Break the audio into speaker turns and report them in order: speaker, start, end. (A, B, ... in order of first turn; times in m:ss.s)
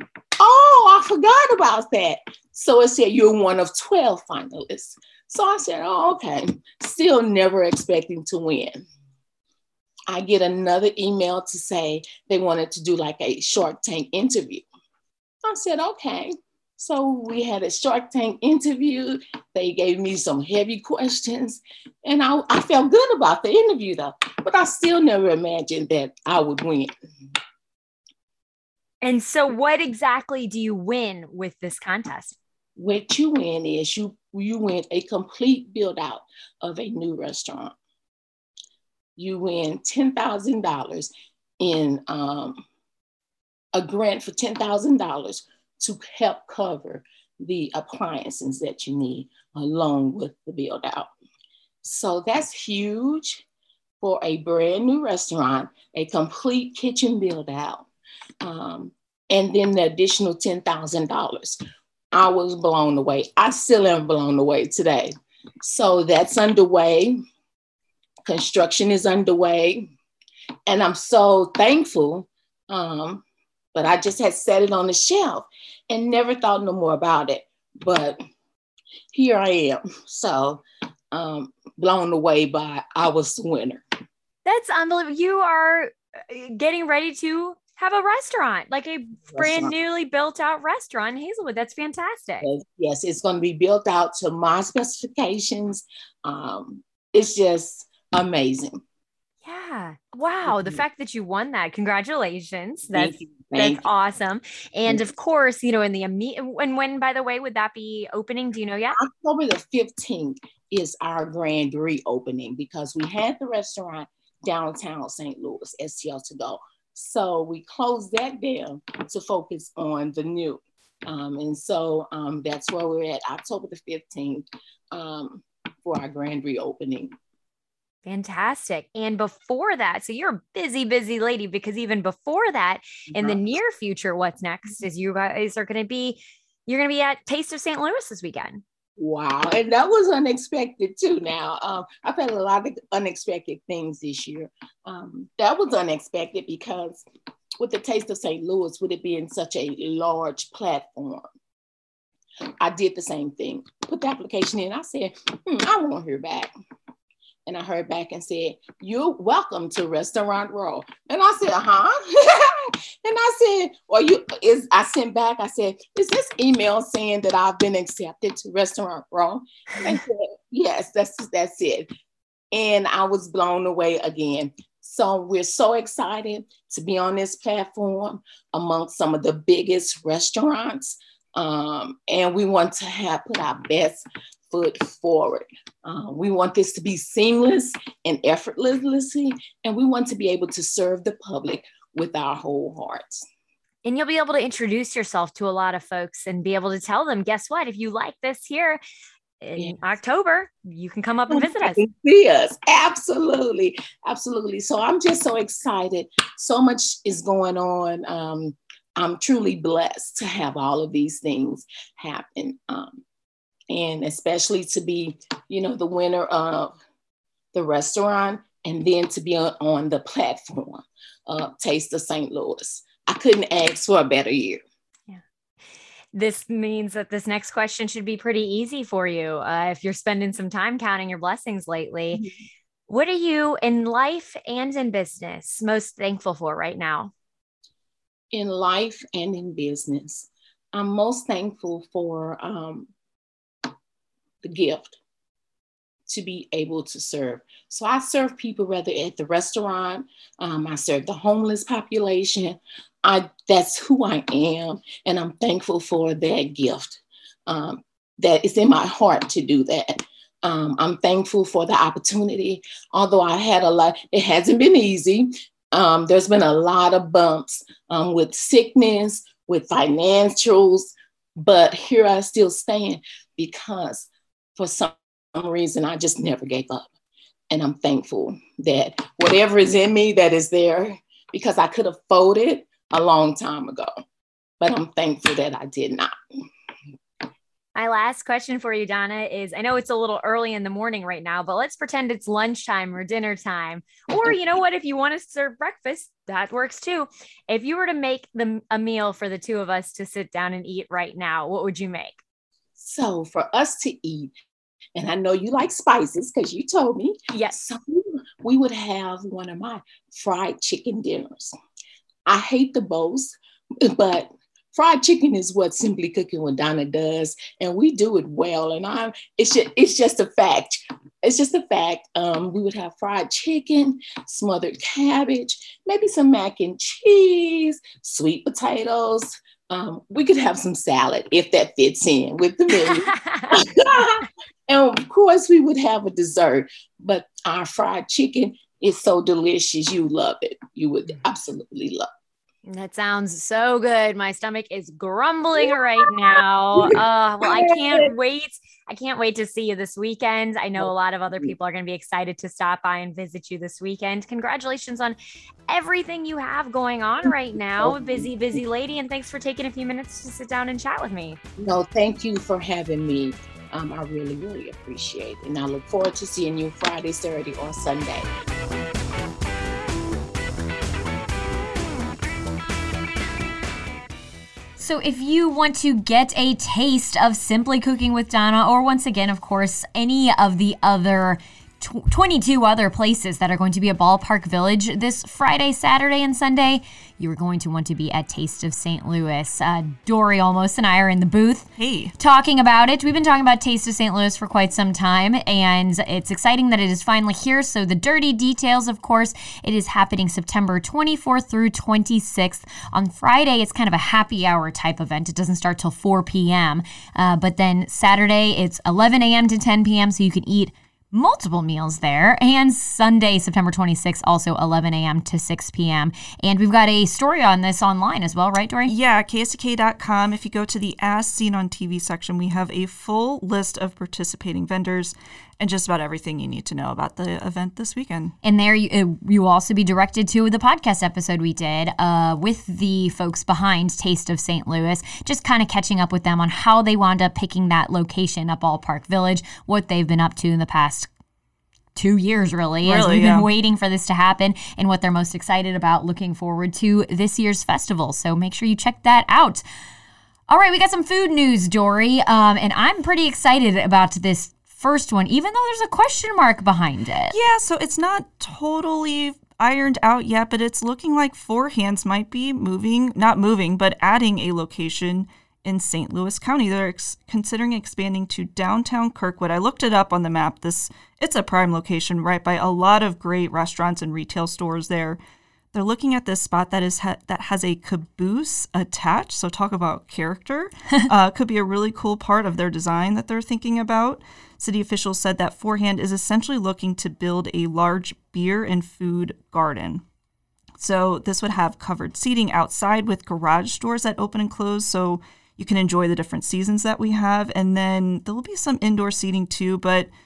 0:00.4-0:08.8 A
0:10.1-0:14.6 A
0:15.4-0:26.9 A
0:29.0-0:32.4 B
0:32.8-0:37.7 A
0:39.2-0:42.6 A
0:43.7-0:51.1 A
0:51.8-0:53.4 A
0:54.0-0:57.9 A
0:58.4-1:01.6 A
1:02.1-1:07.2 A
1:08.2-1:09.9 A
1:10.7-1:13.2 A
1:13.7-1:18.2 A
1:19.1-1:23.8 A
1:24.4-1:32.5 B
1:29.3-1:29.7 A
1:32.4-1:38.8 A
1:39.4-1:49.0 B
1:40.4-1:40.8 A
1:42.9-1:43.8 A
1:49.0-2:07.1 A
2:08.0-2:18.6 B
2:13.1-2:13.4 A
2:19.0-2:27.0 A
2:27.6-2:31.2 A
2:32.6-2:36.5 A
2:37.5-2:51.9 A
2:52.5-3:13.2 A
3:13.8-3:18.8 B
3:19.4-3:21.8 B
3:21.3-3:33.0 A
3:33.7-3:36.7 A
3:37.5-3:44.6 A
3:46.1-3:52.2 B
3:52.9-3:57.1 B
3:58.3-4:02.9 A
4:04.4-4:05.0 A
4:06.1-4:36.9 A
4:37.5-4:43.9 A
4:44.6-4:46.1 A
4:47.8-5:02.2 B
5:02.8-5:04.3 A
5:04.9-5:11.5 A
5:12.2-5:42.0 A
5:32.8-5:33.5 B
5:42.6-5:55.2 B
5:47.4-5:48.1 A
5:55.7-6:01.4 B
5:57.3-5:58.3 A
6:01.6-6:08.3 A
6:14.8-6:58.9 B
6:31.8-6:32.1 C
6:58.9-7:08.3 C
7:08.4-7:21.1 B
7:21.9-7:29.6 B
7:22.8-7:23.5 C
7:30.5-7:37.3 B
7:37.3-7:55.2 C
7:55.7-8:10.0 C
8:10.8-8:20.1 C